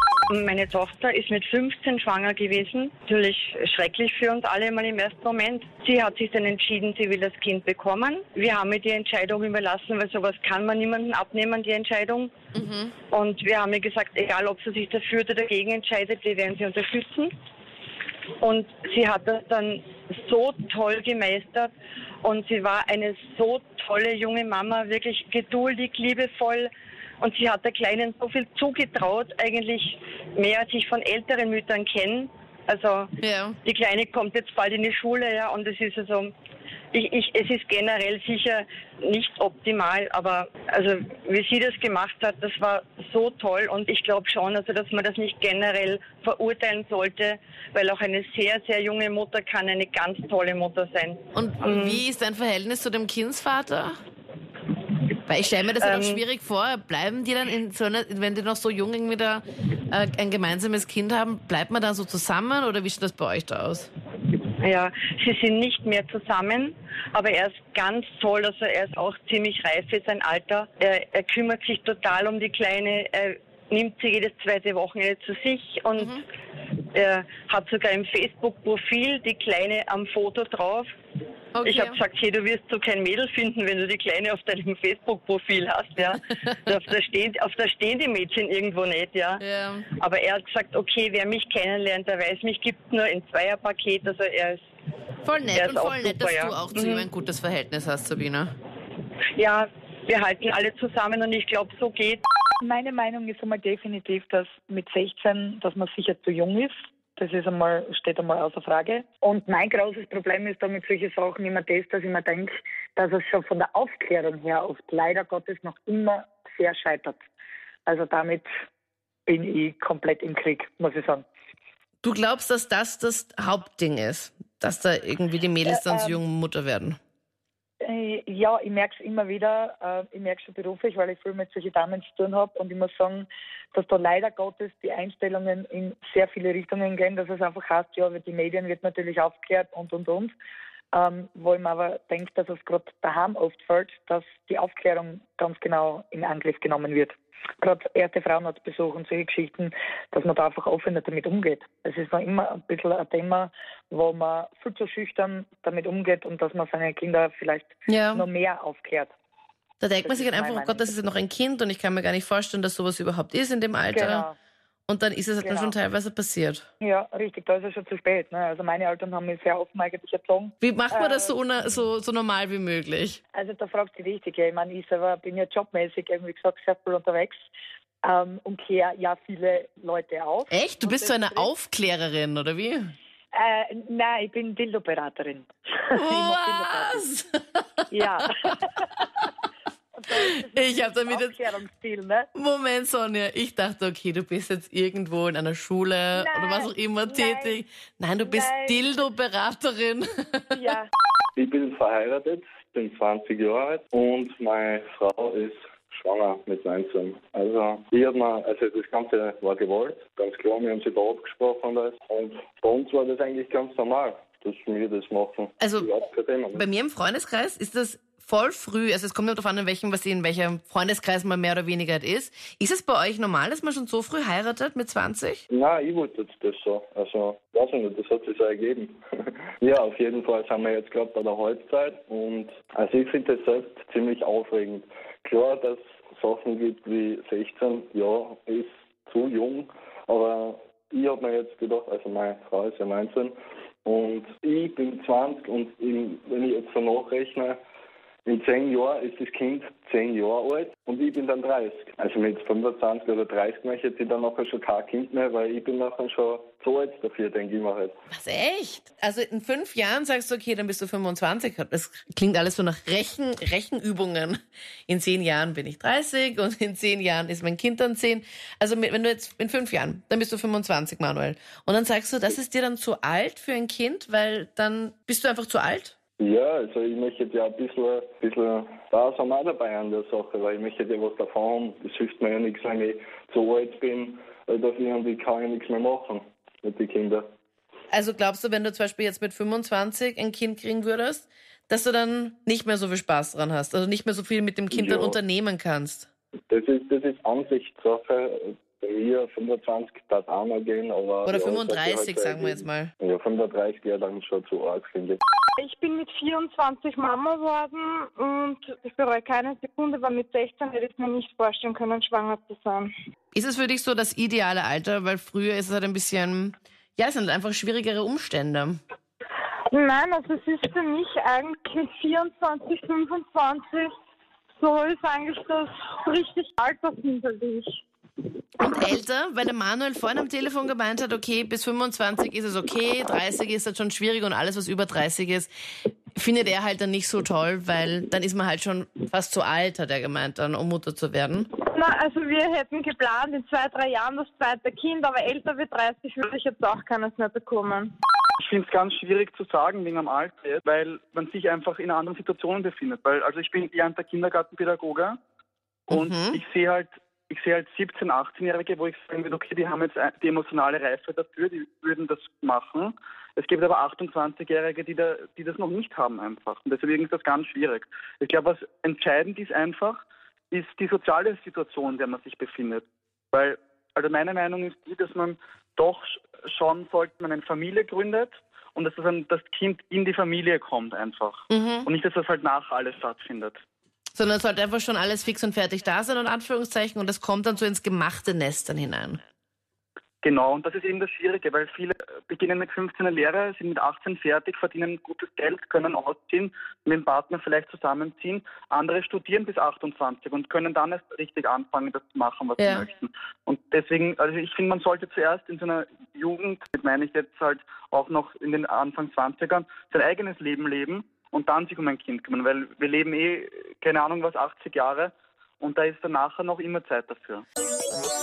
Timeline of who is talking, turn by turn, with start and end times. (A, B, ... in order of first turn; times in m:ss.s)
0:00.3-0:12.3 A
0:12.6-0:12.9 B
0:13.1-0:17.3 A
0:18.4-0:21.7 A
0:22.2-0:33.1 A
0:33.2-0:33.6 B
0:33.6-0:36.3 A
0:36.9-0:52.0 A
0:51.3-0:54.0 B
0:55.3-1:03.9 B
0:55.8-0:56.2 A
1:04.6-1:16.2 A
1:16.9-1:20.9 A
1:21.6-1:22.0 B
1:21.6-1:29.4 A
1:29.4-1:29.9 B
1:30.0-1:34.6 A
1:35.2-1:38.5 B
1:35.6-1:37.0 A
1:39.4-1:42.2 A
1:42.6-1:57.2 C
1:57.9-1:58.5 C
1:59.3-2:01.2 C
2:02.0-2:07.0 B
2:05.6-2:06.2 C
2:07.8-2:20.3 C
2:20.9-2:39.1 C
2:37.9-2:38.3 B
2:39.8-2:44.3 B
2:40.0-2:40.9 C
2:43.9-2:44.4 C
2:44.9-2:46.6 B
2:45.4-2:45.8 C
2:46.8-2:51.6 C
2:50.6-2:53.2 B
2:53.3-2:57.4 C
2:58.0-3:01.5 C
3:00.5-3:02.9 B
3:03.3-3:07.0 C
3:05.9-3:07.8 B
3:07.9-3:09.1 C
3:09.9-3:12.3 C
3:10.2-3:11.4 B
3:12.3-3:20.6 B
3:16.1-3:17.6 C
3:18.2-3:18.8 C
3:20.5-3:20.9 C
3:21.4-3:36.7 D
3:35.6-3:35.9 B
3:36.5-3:45.4 B
3:45.5-3:49.0 D
3:49.6-4:07.6 D
4:08.3-4:18.0 D
4:18.1-4:36.0 B
4:36.2-4:47.3 D
4:47.9-4:56.1 B
4:54.7-4:55.2 D
4:56.5-5:05.2 D
5:01.2-5:02.9 B
5:05.6-5:12.9 E
5:13.3-5:18.8 B
5:19.7-5:23.9 E
5:24.6-5:27.8 E
5:28.6-5:35.5 B
5:36.2-5:41.5 B
5:41.7-5:47.9 E
5:48.4-5:55.2 F
5:55.9-6:10.0 F
5:55.9-5:56.4 B
6:10.5-6:23.6 F
6:21.5-6:21.9 B
6:24.2-6:29.2 B
6:30.2-6:57.4 F
6:42.6-6:42.9 B